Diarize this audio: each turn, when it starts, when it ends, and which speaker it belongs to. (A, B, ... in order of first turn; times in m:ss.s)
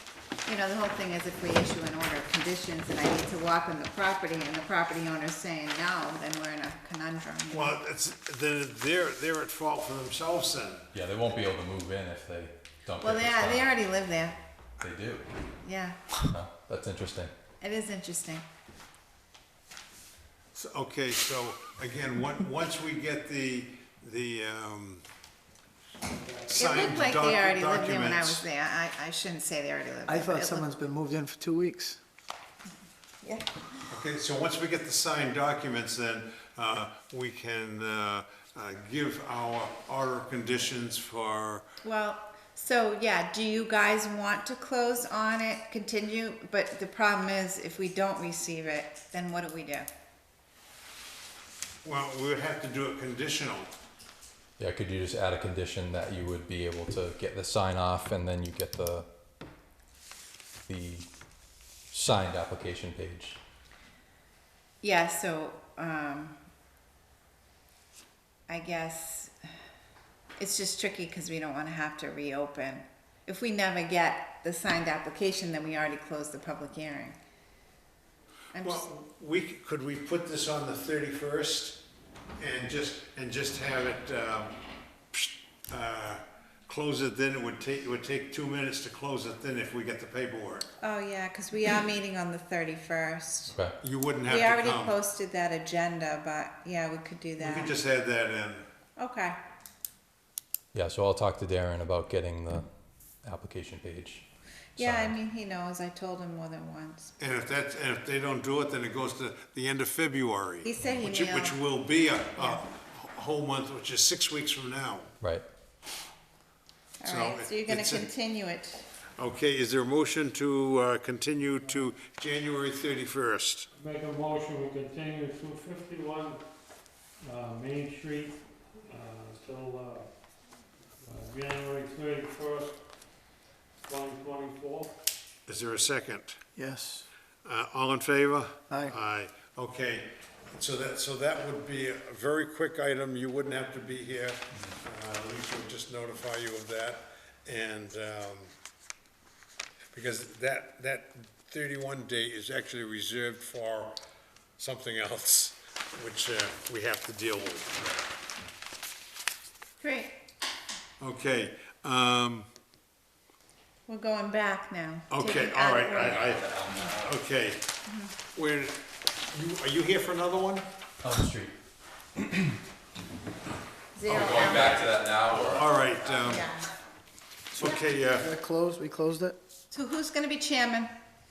0:00.5-0:07.8 A
0:07.5-0:10.9 B
0:10.9-0:13.7 C
0:13.0-0:14.4 A
0:14.8-0:15.3 C
0:15.6-0:16.0 A
0:16.3-0:17.3 C
0:17.6-0:18.4 A
0:20.5-0:25.1 B
0:26.4-0:28.4 B
0:26.5-0:30.7 A
0:30.1-0:32.0 D
0:33.2-0:33.5 A
0:33.9-0:41.7 B
0:41.8-0:49.9 A
0:51.8-0:53.7 B
0:54.6-0:59.1 C
1:00.7-1:01.1 C
1:01.9-1:03.4 C
1:04.8-1:06.4 A
1:08.5-1:09.3 A
1:10.4-1:17.2 A
1:18.5-1:18.9 A
1:18.6-1:21.8 B
1:22.4-1:24.6 B
1:25.1-1:30.7 B
1:30.8-1:33.6 A
1:33.8-1:35.0 B
1:34.3-1:37.7 A
1:37.4-1:38.7 B
1:39.0-1:39.4 A
1:40.7-1:42.6 C
1:43.2-1:44.2 C
1:44.8-1:47.1 A
1:44.8-1:45.2 C
1:47.2-1:55.1 B
1:50.6-1:51.6 A
1:52.4-1:52.6 A
1:57.0-1:58.9 A
1:57.0-1:58.1 B
1:59.2-2:03.7 B
2:03.7-2:06.4 E
2:07.2-2:10.2 E
2:11.0-2:12.8 E
2:13.9-2:14.9 E
2:15.5-2:16.4 B
2:16.6-2:17.1 D
2:17.4-2:28.5 B
2:18.7-2:19.0 D
2:29.9-2:34.0 B
2:34.6-2:37.8 B
2:39.8-2:40.1 A
2:41.0-2:42.5 B
2:43.9-2:46.4 A
2:45.1-2:47.6 B
2:45.9-2:47.2 C
2:48.4-2:48.8 B
2:49.3-2:50.7 B
2:51.0-2:51.5 C
2:52.2-2:52.6 C
2:54.0-2:54.9 A
2:54.0-2:56.5 C
2:55.4-2:56.5 B
2:56.2-2:56.7 A
2:57.5-2:59.4 D
2:57.6-2:58.3 B
2:59.7-3:00.9 A